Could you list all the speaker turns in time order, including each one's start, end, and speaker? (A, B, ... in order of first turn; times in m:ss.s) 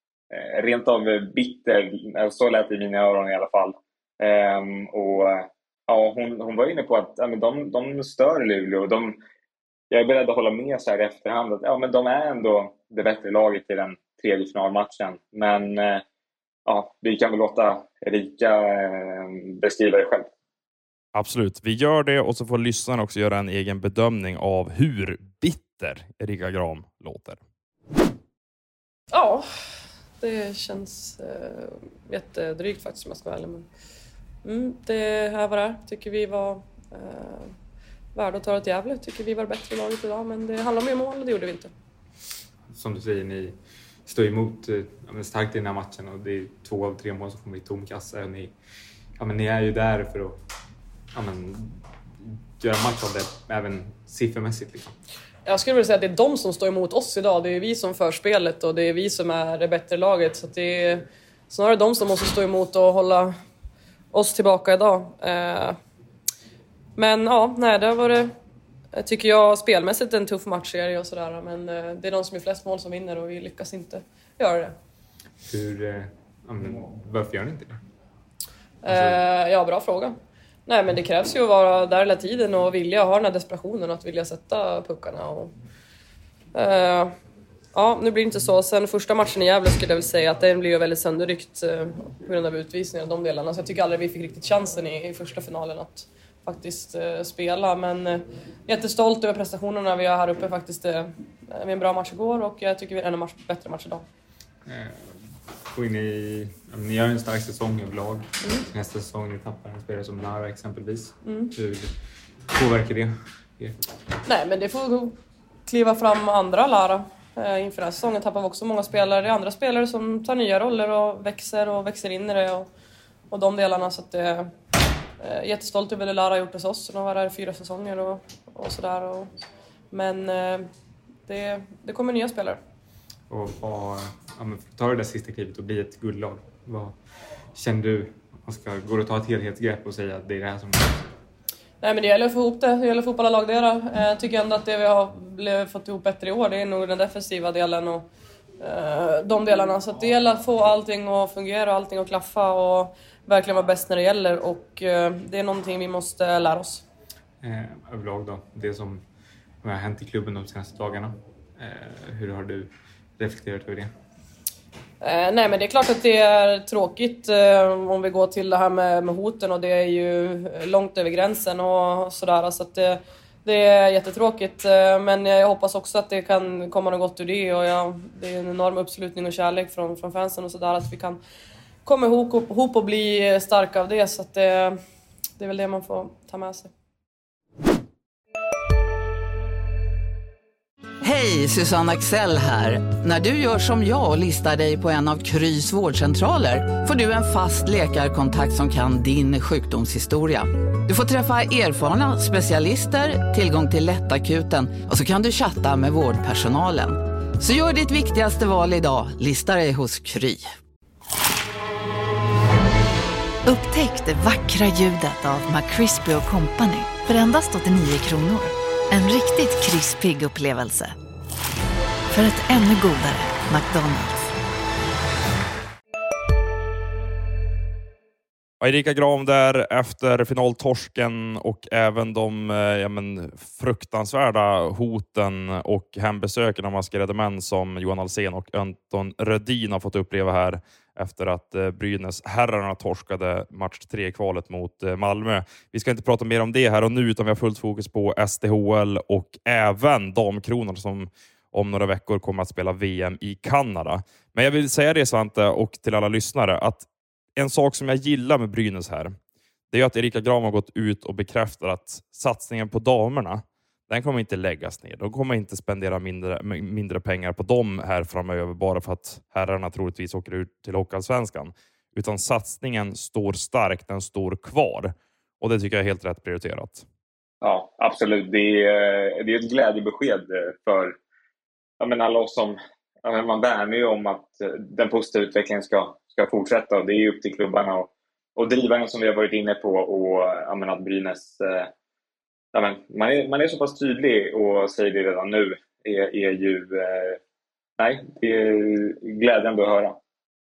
0:00.3-0:09.2 A
0:09.9-0:16.0 A
0:16.7-0:20.3 A
0:21.2-0:27.4 B
0:29.1-0:29.4 C
0:30.2-0:33.7 C
0:34.4-0:37.5 C
0:38.2-0:41.7 C
0:42.7-0:48.5 D
0:49.2-0:50.4 D
0:51.1-0:55.0 D
0:55.5-1:03.3 C
1:04.1-1:05.8 C
1:07.0-1:08.3 C
1:08.9-1:14.8 C
1:15.5-1:17.8 D
1:18.8-1:25.5 C
1:18.9-1:19.2 D
1:26.6-1:27.1 C
1:27.7-1:44.0 C
1:44.7-1:51.9 D
1:51.2-1:51.5 C
1:52.5-1:53.8 D
1:54.3-2:02.7 C
2:03.3-2:04.5 C
2:05.2-2:09.3 C
2:09.9-2:10.7 C
2:11.3-2:12.6 C
2:13.3-2:17.0 D
2:17.6-2:21.1 D
2:21.8-2:28.1 C
2:28.6-2:36.8 C
2:37.4-2:39.0 D
2:39.6-2:43.9 D
2:45.0-3:01.2 C
3:01.8-3:04.8 C
3:05.4-3:06.7 C
3:11.0-3:30.6 E
3:33.4-3:41.0 F
3:42.1-3:44.4 F
3:48.6-4:19.2 B
4:19.7-4:36.8 B
4:37.4-4:41.0 A
4:41.8-4:51.7 A
4:52.5-4:57.2 A
4:57.8-5:00.0 A